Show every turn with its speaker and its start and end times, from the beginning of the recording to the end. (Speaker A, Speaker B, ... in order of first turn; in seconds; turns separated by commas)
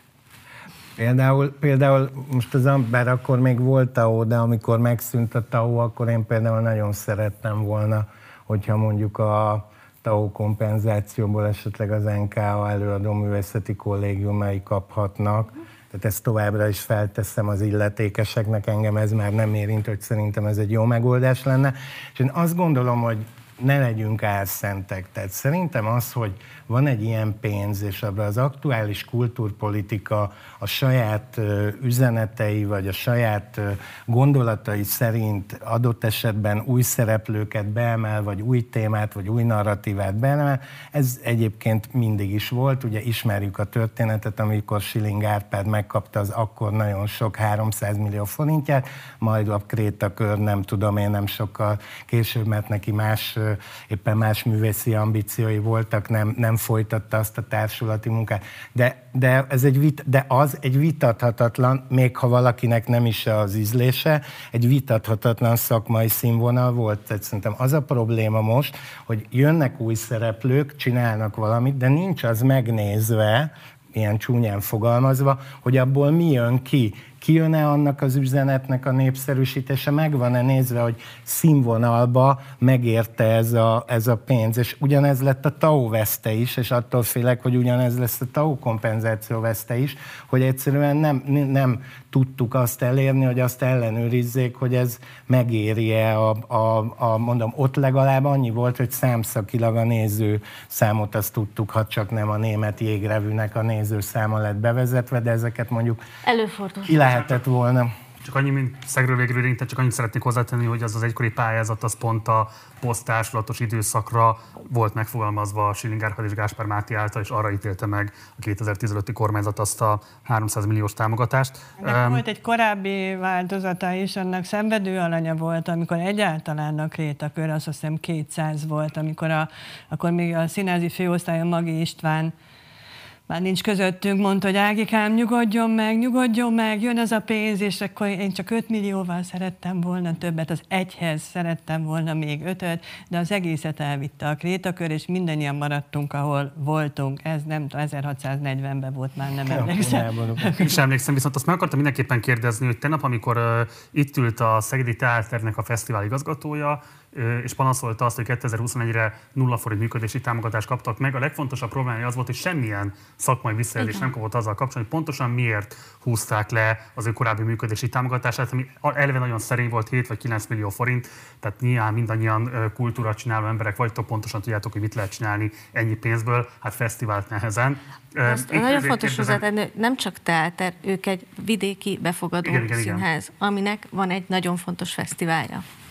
Speaker A: 1.0-106.0, Speaker B: 106.2-107.0, Speaker A: 106.8-107.9, Speaker C: 107.0-107.4, Speaker C: 108.2-122.2, Speaker D: 121.8-132.3, Speaker D: 133.3-150.8, Speaker A: 149.5-150.6, Speaker C: 150.6-179.4, Speaker B: 163.8-164.1, Speaker B: 178.2-185.6, Speaker C: 182.4-183.0